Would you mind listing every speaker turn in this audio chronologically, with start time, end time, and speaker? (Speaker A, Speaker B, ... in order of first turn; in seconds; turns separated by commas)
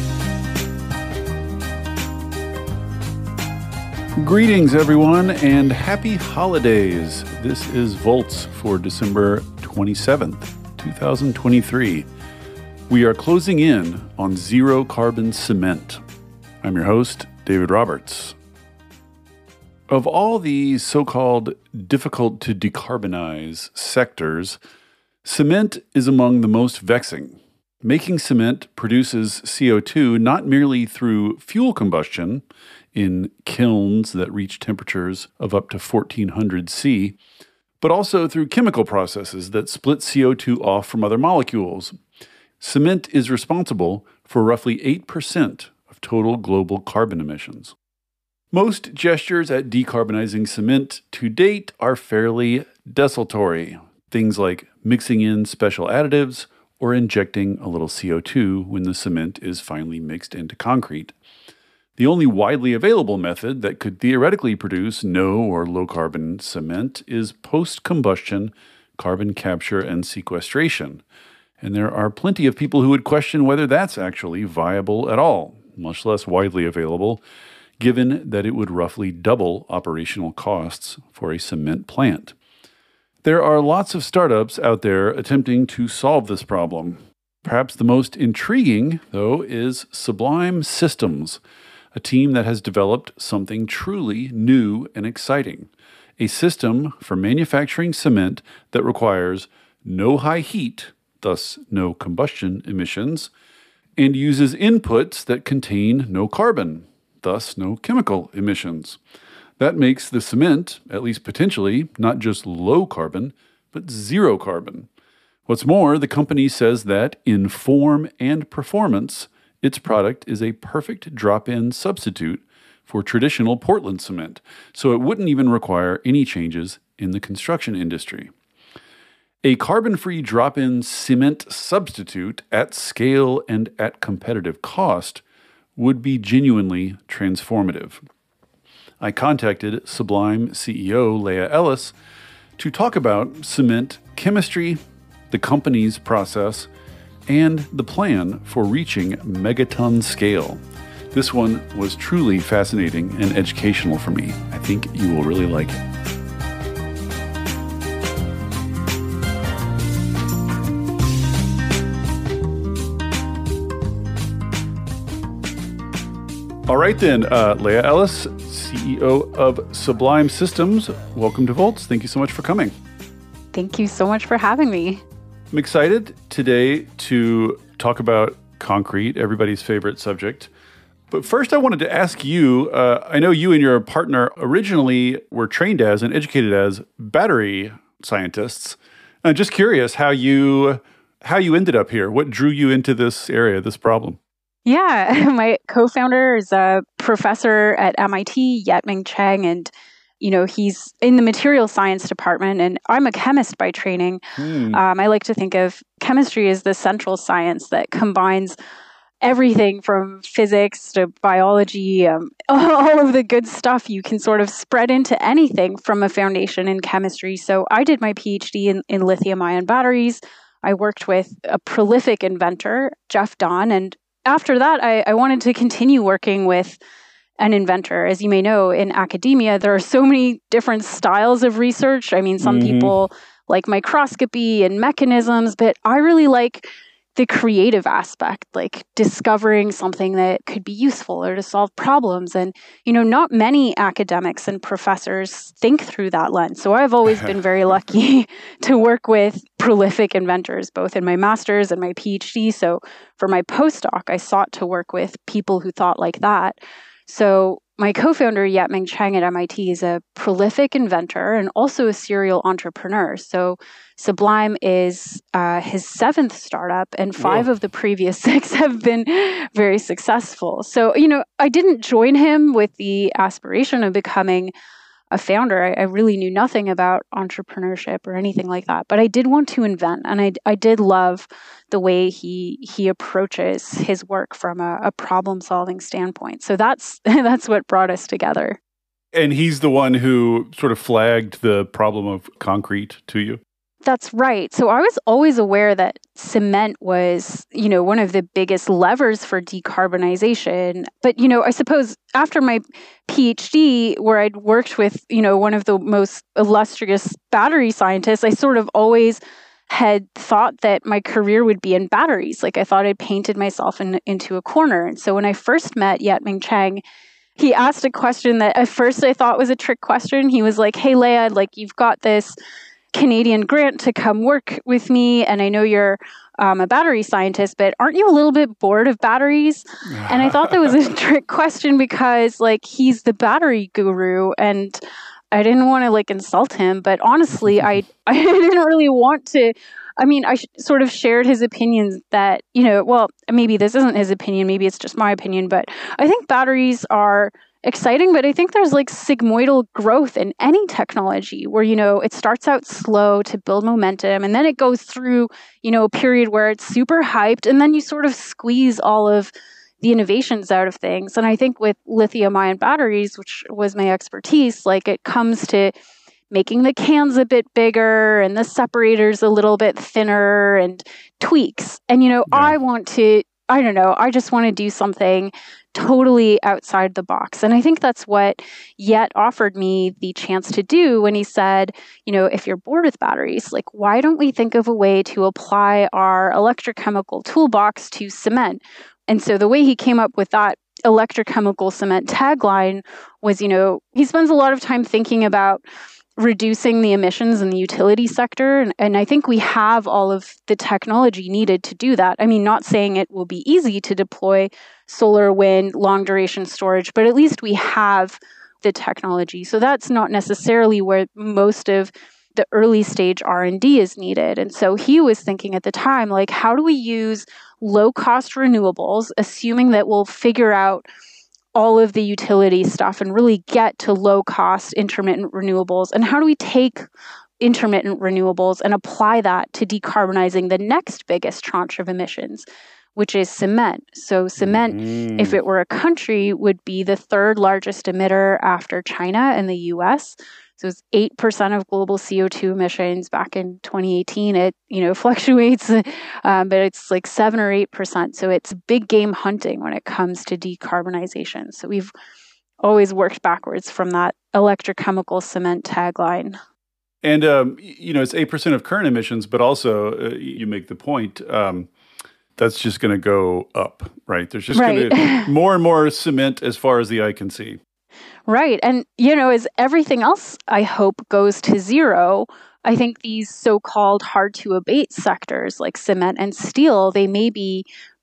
Speaker A: 4.2-12.1, Speaker A: 12.9-16.0, Speaker A: 16.6-18.4, Speaker A: 19.9-24.6, Speaker A: 25.2-37.2, Speaker A: 37.8-42.0, Speaker A: 42.6-47.7, Speaker A: 48.5-61.1, Speaker A: 62.0-71.0, Speaker A: 71.6-77.2, Speaker A: 77.8-82.3, Speaker A: 83.2-91.4, Speaker A: 92.0-103.3, Speaker A: 104.0-109.0, Speaker A: 109.6-114.9, Speaker A: 115.5-128.3, Speaker A: 129.4-135.2, Speaker A: 135.8-138.0, Speaker A: 139.0-141.9, Speaker A: 142.6-144.8, Speaker A: 145.3-146.7, Speaker A: 147.3-155.8, Speaker A: 166.7-172.7, Speaker B: 173.5-175.0, Speaker A: 175.5-180.5, Speaker A: 181.1-194.2, Speaker B: 194.7-208.6, Speaker A: 204.4-204.8, Speaker B: 209.2-226.8, Speaker B: 227.4-274.5, Speaker A: 232.4-232.9, Speaker A: 267.2-267.5, Speaker B: 275.1-288.6, Speaker A: 289.1-293.4, Speaker B: 293.9-316.8, Speaker B: 317.4-322.4, Speaker B: 322.9-334.8, Speaker A: 330.0-330.7, Speaker B: 335.3-359.3, Speaker B: 359.8-365.7, Speaker B: 366.3-395.6, Speaker A: 372.3-372.6, Speaker B: 396.2-420.9, Speaker B: 421.6-426.9, Speaker B: 427.4-451.9, Speaker A: 434.4-435.4, Speaker B: 452.6-456.4, Speaker A: 457.0-461.7, Speaker A: 462.4-467.6, Speaker B: 464.5-465.3, Speaker B: 468.3-477.7